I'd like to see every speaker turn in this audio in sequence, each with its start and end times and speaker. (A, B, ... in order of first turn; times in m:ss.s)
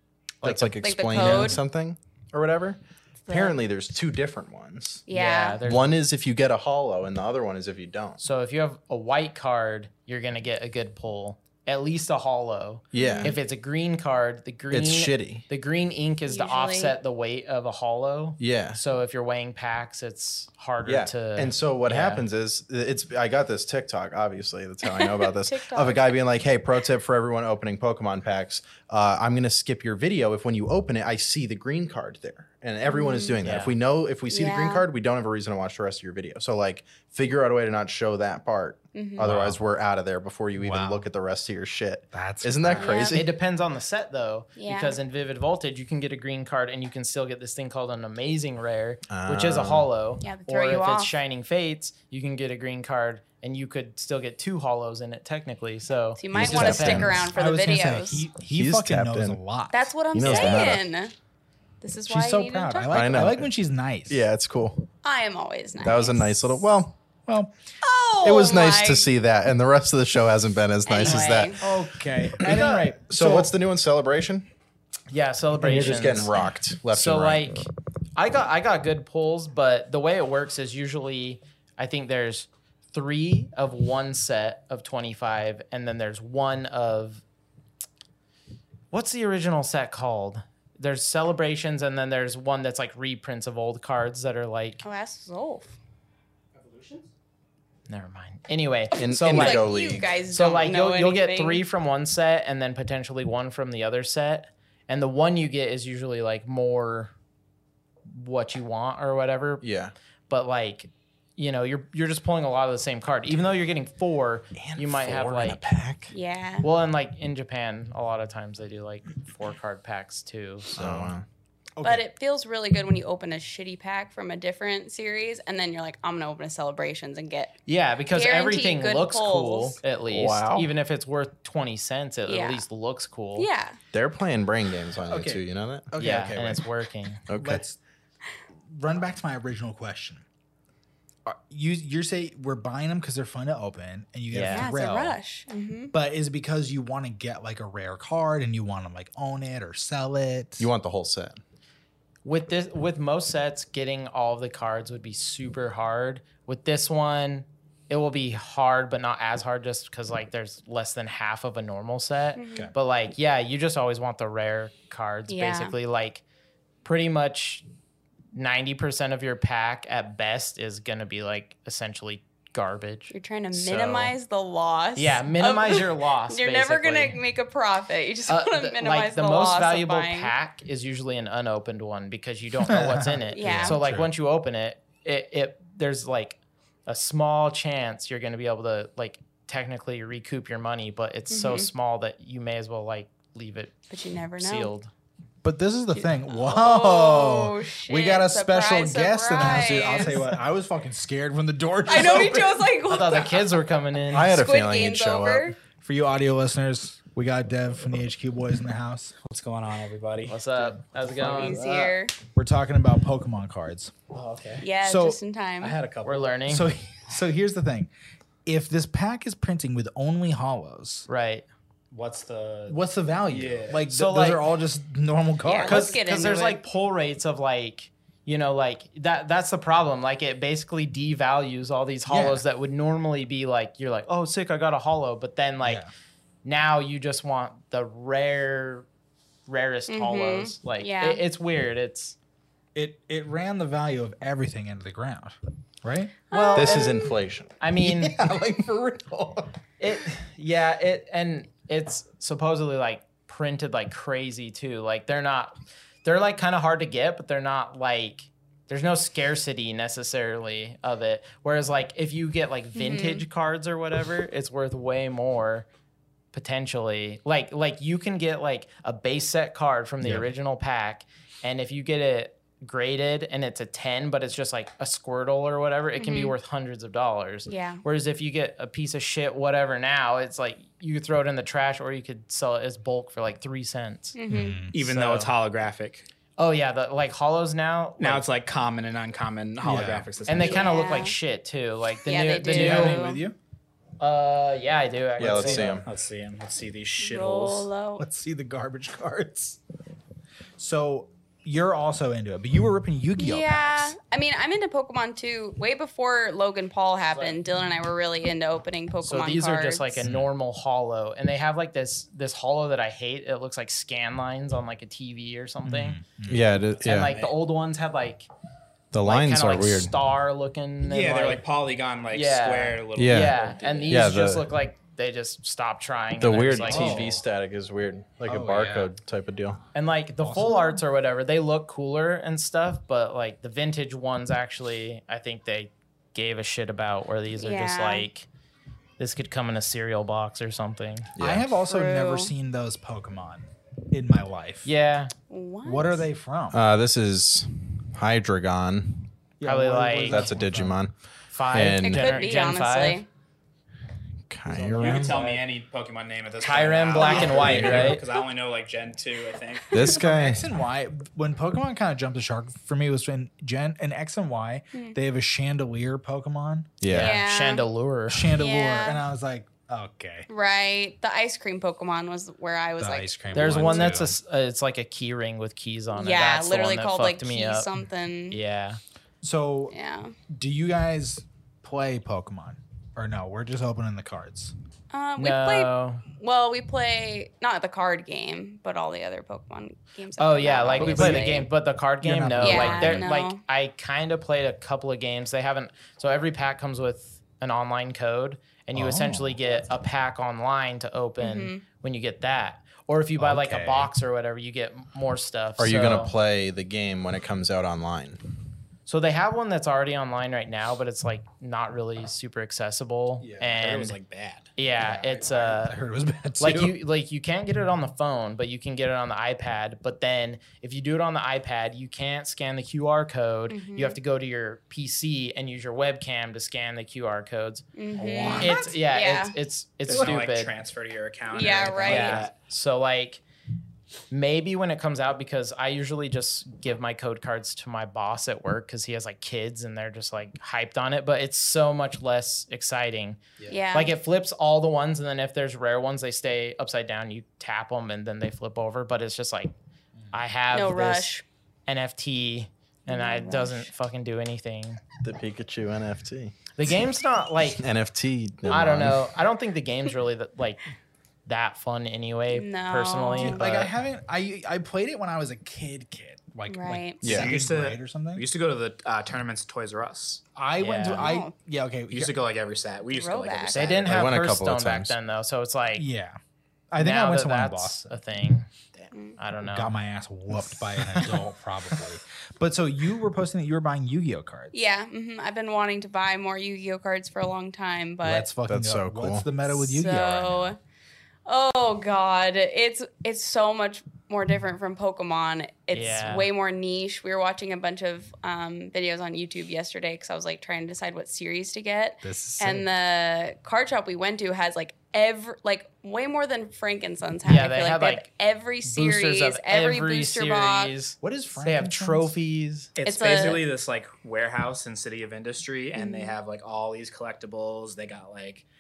0:00.4-0:01.6 A
0:00.4-0:05.0 B
0:00.8-0:01.6 C
0:03.3-0:03.6 C
0:05.1-0:05.6 C
0:05.1-0:05.9 A
0:05.6-0:08.2 B
0:08.2-0:22.2 A
0:12.9-0:13.4 B
0:13.0-0:13.3 C
0:14.7-0:15.4 B
0:16.3-0:17.0 C
0:18.4-0:18.8 B
0:20.8-0:43.3 B
0:24.8-0:26.1 C
0:32.9-0:33.4 C
0:33.4-0:33.7 A
0:34.3-0:34.8 C
0:38.9-0:39.3 C
0:39.2-0:39.6 D
0:40.6-0:41.1 D
0:42.1-0:43.0 D
0:42.7-0:43.2 C
0:43.1-0:57.1 A
0:44.6-0:45.0 C
0:49.1-0:49.9 B
0:50.2-0:51.1 C
0:56.2-0:58.2 C
0:56.3-0:57.3 B
0:56.7-1:00.5 D
0:58.5-0:59.4 B
0:59.7-1:01.1 C
1:00.1-1:00.8 B
1:01.8-1:03.2 C
1:02.1-1:04.2 D
1:02.9-1:03.5 B
1:04.1-1:04.8 B
1:05.0-1:06.7 C
1:05.8-1:06.9 B
1:07.3-1:07.5 D
1:07.8-1:09.1 C
1:08.2-1:11.6 B
1:10.9-1:11.6 C
1:11.0-1:13.5 D
1:12.4-1:14.5 B
1:15.1-1:16.4 A
1:15.6-1:17.5 B
1:16.9-1:27.2 A
1:28.9-1:34.8 A
1:34.8-1:35.8 C
1:36.6-1:37.1 E
1:37.9-1:39.7 A
1:39.0-1:41.6 C
1:39.0-1:40.2 B
1:40.3-1:47.1 A
1:48.1-1:49.6 A
1:49.6-1:49.9 B
1:50.3-1:55.6 A
1:54.6-1:56.1 B
1:56.1-1:56.7 C
1:56.6-2:01.1 A
2:00.7-2:01.2 B
2:01.8-2:02.0 D
2:01.8-2:07.5 C
2:07.7-2:13.5 A
2:08.1-2:09.8 C
2:10.1-2:10.7 B
2:12.3-2:12.6 C
2:13.4-2:13.8 C
2:13.9-2:16.6 B
2:15.1-2:15.4 D
2:16.0-2:17.2 A
2:17.3-2:17.6 B
2:17.3-2:17.8 D
2:18.7-2:20.2 D
2:21.3-2:25.2 D
2:24.3-2:24.7 A
2:24.5-2:25.9 C
2:25.9-2:30.7 D
2:30.6-2:31.4 B
2:32.2-2:46.2 A
2:42.4-2:42.7 C
2:45.3-2:45.8 C
2:46.8-2:47.6 A
2:48.3-2:54.1 A
2:53.1-3:00.3 C
2:55.0-2:57.2 A
2:58.3-3:13.8 A
3:02.6-3:04.1 D
3:03.3-3:03.8 C
3:11.3-3:11.7 C
3:13.9-3:14.7 C
3:14.4-3:14.9 A
3:15.4-3:22.8 D
3:16.0-3:20.3 C
3:21.9-3:23.4 C
3:22.9-3:24.4 A
3:24.1-3:25.5 B
3:24.2-3:25.6 C
3:25.8-3:29.2 D
3:29.2-3:32.0 E
3:30.3-3:31.6 A
3:31.2-3:32.1 C
3:32.4-3:34.0 D
3:34.1-3:34.7 E
3:34.6-3:35.8 C
3:34.8-3:35.2 D
3:35.6-3:36.4 E
3:36.0-3:36.7 A
3:36.5-3:37.9 D
3:38.4-3:41.1 D
3:41.1-3:41.5 A
3:41.9-3:43.8 E
3:42.7-3:46.0 D
3:43.9-3:44.4 A
3:45.4-3:46.6 C
3:45.6-3:55.9 A
3:52.1-3:52.4 D
3:55.6-3:55.9 D
3:56.4-3:58.9 A
3:59.5-4:02.2 A
3:59.9-4:01.2 C
4:02.8-4:06.2 D
4:06.3-4:07.2 C
4:06.3-4:09.3 B
4:07.6-4:08.2 A
4:09.8-4:25.7 A
4:22.8-4:23.2 C
4:26.3-4:44.2 A
4:36.0-4:36.4 C
4:37.5-4:37.8 C
4:44.2-4:44.6 C
4:44.3-4:44.8 D
4:44.7-4:46.1 E
4:44.8-4:45.3 A
4:46.4-4:48.2 A
4:48.0-4:50.8 E
4:49.6-4:50.1 D
4:50.2-4:53.1 A
4:50.4-4:51.2 C
4:52.1-4:53.2 C
4:52.4-4:53.4 D
4:54.0-4:55.8 A
4:55.2-4:55.8 B
4:55.2-4:55.8 D
4:55.2-4:57.7 E
4:57.0-4:58.1 C
4:58.0-4:59.6 D
5:00.6-5:04.0 D
5:03.2-5:10.0 C
5:09.0-5:16.0 A
5:10.0-5:10.3 D
5:15.6-5:16.7 D
5:16.3-5:17.2 B
5:16.8-5:18.3 A
5:17.0-5:17.3 E
5:18.9-5:19.9 B
5:19.0-5:21.4 A
5:20.8-5:24.1 E
5:22.1-5:27.2 A
5:23.0-5:23.4 B
5:23.9-5:24.5 B
5:26.2-5:29.6 B
5:26.6-5:27.2 D
5:28.3-5:28.9 D
5:29.7-5:38.3 A
5:30.2-5:30.6 D
5:30.5-5:30.8 C
5:37.4-5:38.1 C
5:39.0-5:41.1 A
5:41.2-5:41.5 B
5:41.2-5:44.7 D
5:41.7-5:42.3 C
5:44.6-5:45.1 A
5:45.3-5:46.0 C
5:45.6-5:46.6 D
5:46.5-5:49.1 B
5:49.4-5:50.8 D
5:49.4-5:50.3 A
5:50.0-5:50.9 B
5:51.3-5:53.0 A
5:51.5-5:52.1 B
5:51.8-5:53.1 C
5:54.3-5:55.2 B
5:54.5-5:59.8 E
5:54.8-5:55.4 D
5:56.4-5:58.0 A
5:57.0-5:58.0 D
5:57.4-5:58.0 B
5:59.7-6:00.5 B
5:59.8-6:07.1 D
6:06.8-6:07.2 B
6:06.9-6:08.3 A
6:06.9-6:07.7 C
6:08.1-6:10.3 D
6:08.3-6:09.0 C
6:10.3-6:14.0 C
6:12.8-6:14.2 D
6:13.3-6:17.7 A
6:15.9-6:18.4 C
6:18.3-6:18.8 A
6:19.2-6:19.7 D
6:19.7-6:20.2 C
6:20.3-6:24.5 D
6:24.9-6:31.5 C
6:25.2-6:26.0 A
6:30.2-6:46.1 A
6:30.6-6:31.4 D
6:32.0-6:33.1 D
6:32.4-6:33.4 C
6:38.7-6:39.4 D
6:41.2-6:41.6 C
6:43.2-6:43.9 D
6:45.6-6:48.2 B
6:48.9-6:54.0 A
6:53.2-6:54.5 E
6:54.6-6:55.8 A
6:54.8-6:56.8 D
6:56.4-7:07.7 A
7:03.5-7:04.0 C
7:07.8-7:09.4 C
7:08.0-7:08.7 D
7:08.4-7:10.5 A
7:09.9-7:12.3 E
7:11.3-7:12.3 C
7:11.8-7:13.2 A
7:14.1-7:29.5 A
7:23.5-7:24.0 C
7:30.1-7:31.2 A
7:30.5-7:31.2 C
7:31.7-7:34.8 A
7:32.9-7:33.7 C
7:35.0-7:36.4 B
7:36.6-7:37.6 A
7:37.5-7:39.1 B
7:38.5-7:40.6 A
7:41.3-7:43.7 A
7:42.3-7:43.5 C
7:43.2-7:48.3 D
7:46.5-7:47.0 C
7:47.0-7:47.4 B
7:47.0-7:50.2 E
7:50.4-7:52.2 D
7:50.6-7:51.1 A
7:50.9-7:51.3 C
7:51.9-7:54.1 E
7:52.9-7:53.7 C
7:53.5-7:55.9 A
7:53.9-7:55.0 B
7:55.8-7:56.2 D
7:56.7-7:57.9 D
7:56.8-7:58.5 A
7:58.9-7:59.2 C
7:59.2-7:59.7 A
7:59.4-8:04.6 D
8:04.5-8:08.3 C
8:08.0-8:10.5 D
8:08.5-8:09.3 B
8:09.5-8:10.6 C
8:11.3-8:30.7 C
8:15.7-8:16.3 A
8:22.0-8:22.7 D
8:27.2-8:28.1 A
8:28.6-8:32.7 A
8:31.0-8:32.1 D
8:32.8-8:38.5 E
8:32.8-8:33.4 C
8:35.8-8:36.2 C